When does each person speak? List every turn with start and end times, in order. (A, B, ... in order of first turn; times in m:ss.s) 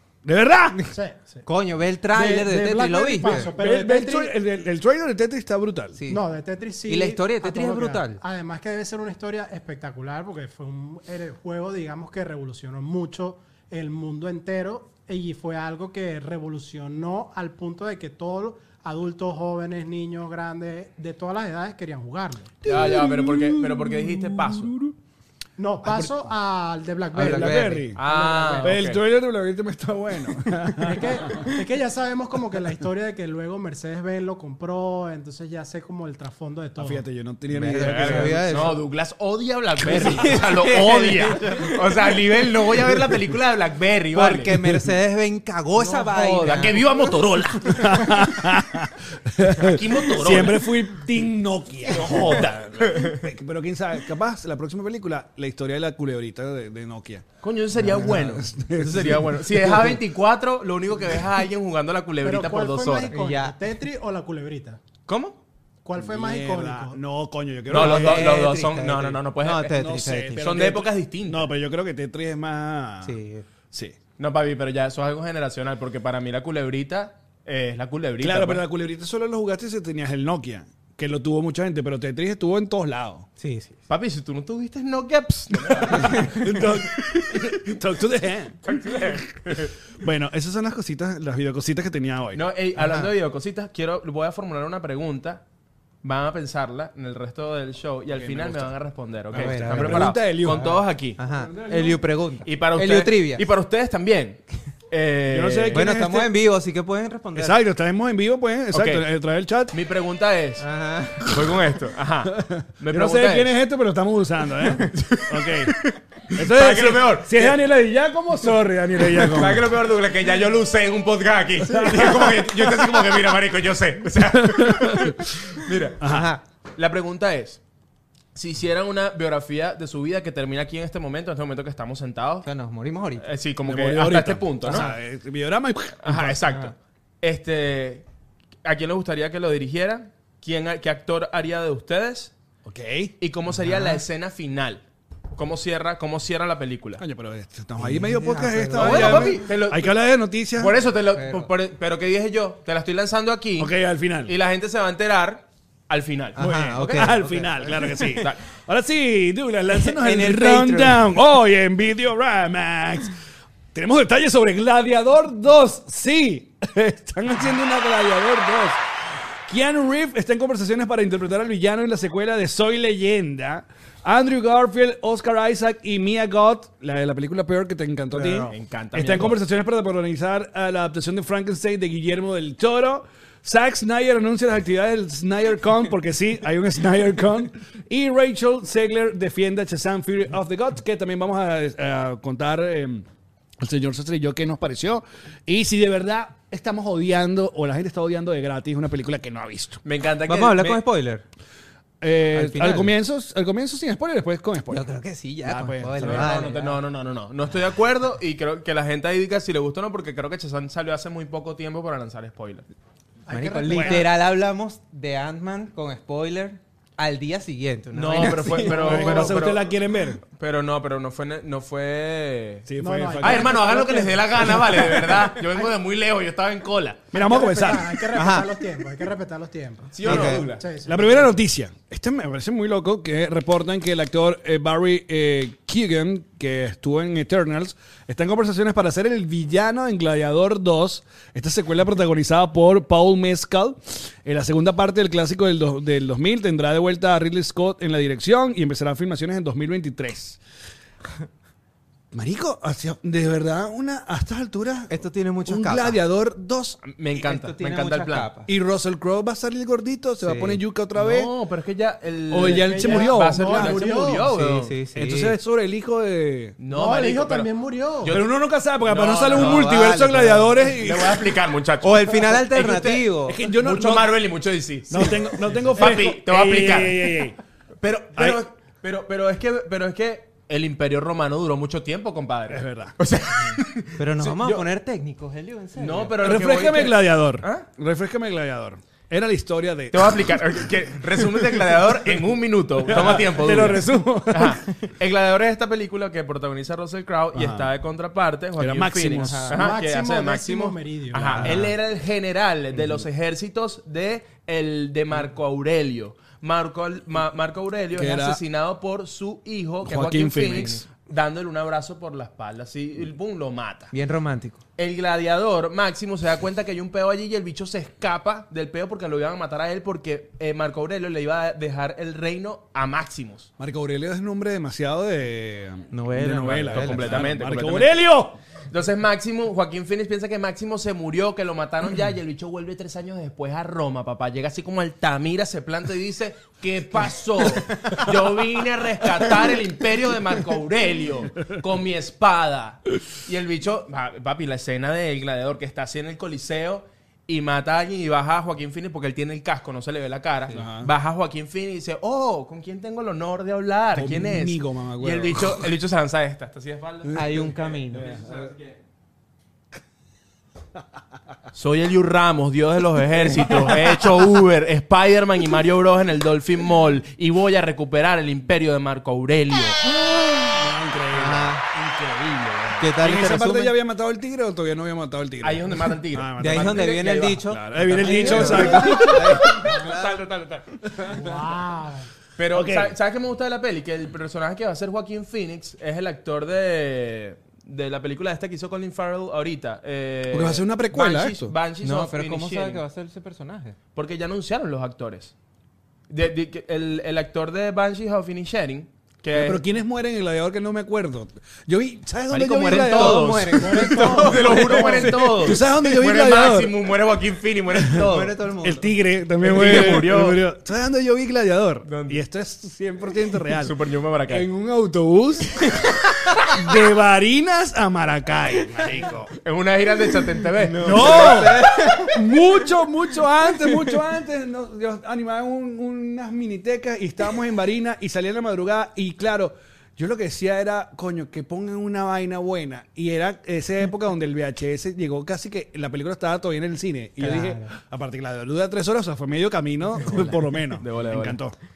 0:00.2-0:00.9 A
0:00.9-0:01.4 B
0:01.4-0:03.5 C
0:02.1-0:04.3 B
0:03.2-0:06.0 A
0:05.9-0:06.2 C
0:06.1-0:22.6 B
0:06.9-0:08.2 C
0:22.6-0:24.9 A
0:22.6-0:24.7 D
0:25.6-0:28.8 B
0:25.8-0:26.3 A
0:27.1-0:28.0 A
0:27.1-0:27.9 C
0:28.0-0:29.0 D
0:28.6-0:31.5 A
0:30.8-0:37.0 B
0:36.8-0:38.7 A
0:37.5-0:38.8 C
0:37.7-0:44.6 D
0:39.8-0:41.7 C
0:39.9-0:40.3 A
0:44.1-0:46.8 C
0:45.8-0:48.1 D
0:47.6-0:57.2 A
0:49.4-0:50.7 D
0:51.9-0:53.2 D
0:57.4-1:03.1 D
0:57.8-1:00.0 A
1:02.2-1:04.8 B
1:03.1-1:03.6 C
1:05.1-1:05.4 D
1:05.8-1:07.0 B
1:06.0-1:08.4 A
1:07.7-1:11.5 D
1:07.7-1:10.8 C
1:09.7-1:13.2 A
1:13.0-1:13.4 C
1:14.2-1:18.6 D
1:18.2-1:23.3 A
1:23.4-1:23.8 C
1:23.9-1:27.3 D
1:25.8-1:32.4 A
1:25.9-1:26.3 C
1:28.6-1:29.7 D
1:32.3-1:35.4 D
1:32.8-1:33.1 C
1:36.0-1:41.2 D
1:38.1-1:38.7 A
1:39.3-1:42.0 A
1:39.3-1:43.4 C
1:42.4-1:45.9 D
1:45.3-1:46.3 A
1:45.7-1:47.6 C
1:47.3-1:49.7 A
1:48.7-1:49.0 D
1:49.7-1:50.6 D
1:50.6-1:51.4 C
1:51.2-1:53.6 D
1:52.3-1:55.7 A
1:54.8-1:57.6 D
1:56.3-1:59.7 A
1:59.1-2:06.0 D
2:01.6-2:03.3 A
2:04.3-2:05.2 A
2:06.0-2:06.3 A
2:06.0-2:06.4 C
2:06.8-2:07.6 D
2:08.3-2:12.5 D
2:12.4-2:13.3 C
2:13.2-2:14.9 D
2:13.6-2:16.5 A
2:14.7-2:14.9 C
2:16.0-2:18.0 D
2:18.6-2:22.3 D
2:22.6-2:23.1 A
2:23.2-2:24.8 D
2:23.6-2:24.0 C
2:25.3-2:27.0 D
2:27.0-2:30.8 A
2:27.8-2:29.4 C
2:28.7-2:29.9 D
2:30.6-2:33.7 D
2:31.1-2:31.5 C
2:33.6-2:34.3 A
2:34.2-2:37.1 D
2:36.4-2:38.2 C
2:36.4-2:43.1 A
2:38.1-2:38.4 D
2:39.7-2:41.0 C
2:43.7-2:48.8 A
2:49.4-3:13.0 A
2:58.1-2:59.4 D
3:13.6-3:19.8 A
3:19.8-3:20.8 D
3:20.3-3:21.2 C
3:22.0-3:24.8 A
3:22.3-3:23.0 C
3:24.7-3:26.8 C
3:25.4-3:26.6 A
3:26.0-3:32.6 D
3:33.2-3:34.1 B
3:33.3-3:39.1 C
3:33.7-3:34.1 A
3:37.9-3:42.7 D
3:38.5-3:40.2 A
3:38.7-3:39.4 B
3:42.6-3:43.6 A
3:42.8-3:45.0 B
3:43.2-3:47.0 D
3:47.1-3:48.0 A
3:47.1-3:51.3 B
3:48.1-3:48.5 C
3:49.9-3:50.6 D
3:50.0-3:50.5 C
3:50.0-4:10.4 A
4:12.1-4:14.9 A
4:14.9-4:16.0 C
4:15.4-4:16.8 A
4:16.8-4:18.3 D
4:17.2-4:18.5 C
4:18.5-4:21.3 A
4:20.2-4:20.6 C
4:20.9-4:24.7 D
4:22.3-4:23.9 A
4:22.3-4:24.3 B
4:24.2-4:25.4 C
4:24.9-4:26.6 A
4:26.6-4:27.5 D
4:26.7-4:28.2 B
4:28.0-4:28.3 D
4:28.1-4:31.3 A
4:28.8-4:29.7 D
4:29.3-4:30.6 C
4:30.7-4:37.2 D
4:31.8-4:33.4 C
4:33.3-4:34.2 A
4:34.9-4:37.4 A
4:37.8-4:44.7 D
4:42.5-4:42.9 A
4:44.0-4:46.2 C
4:45.8-4:47.7 D
4:46.2-4:50.4 A
4:49.9-5:13.9 D
4:52.9-4:54.6 A
4:57.3-4:57.7 A
4:58.6-4:59.6 A
4:59.2-4:59.6 C
4:59.5-5:01.5 B
5:01.2-5:01.7 A
5:07.9-5:08.4 A
5:09.8-5:10.8 A
5:13.9-5:14.6 C
5:14.8-5:23.5 D
5:23.6-5:28.4 A
5:25.9-5:27.4 C
5:26.7-5:28.0 D
5:28.7-5:58.7 D
5:50.5-5:50.9 A
5:53.9-5:55.7 A
5:57.1-5:57.4 A
5:57.1-5:58.1 C
5:58.0-5:58.4 A
6:01.5-6:09.8 D
6:03.4-6:03.8 A
6:10.1-6:19.6 A
6:11.1-6:11.6 C
6:12.8-6:13.8 C
6:15.4-6:20.6 D
6:16.4-6:20.2 C
6:21.0-6:21.6 A
6:21.1-6:22.1 B
6:22.4-6:32.8 D
6:22.5-6:22.9 A
6:30.3-6:31.5 A
6:31.8-6:33.8 C
6:33.9-6:35.3 D
6:36.1-6:39.6 D
6:39.3-6:46.8 A
6:42.3-6:48.4 D
6:42.6-6:45.6 C
6:43.6-6:45.0 B
6:47.9-6:49.0 C
6:48.6-6:53.7 A
6:49.4-6:50.4 D
6:49.6-6:50.0 C
6:51.8-6:52.2 D
6:53.5-6:54.5 D
6:54.3-6:59.3 A
6:59.4-7:02.0 D
7:00.6-7:02.2 C
7:00.8-7:21.5 A
7:17.2-7:17.7 C
7:20.8-7:21.4 D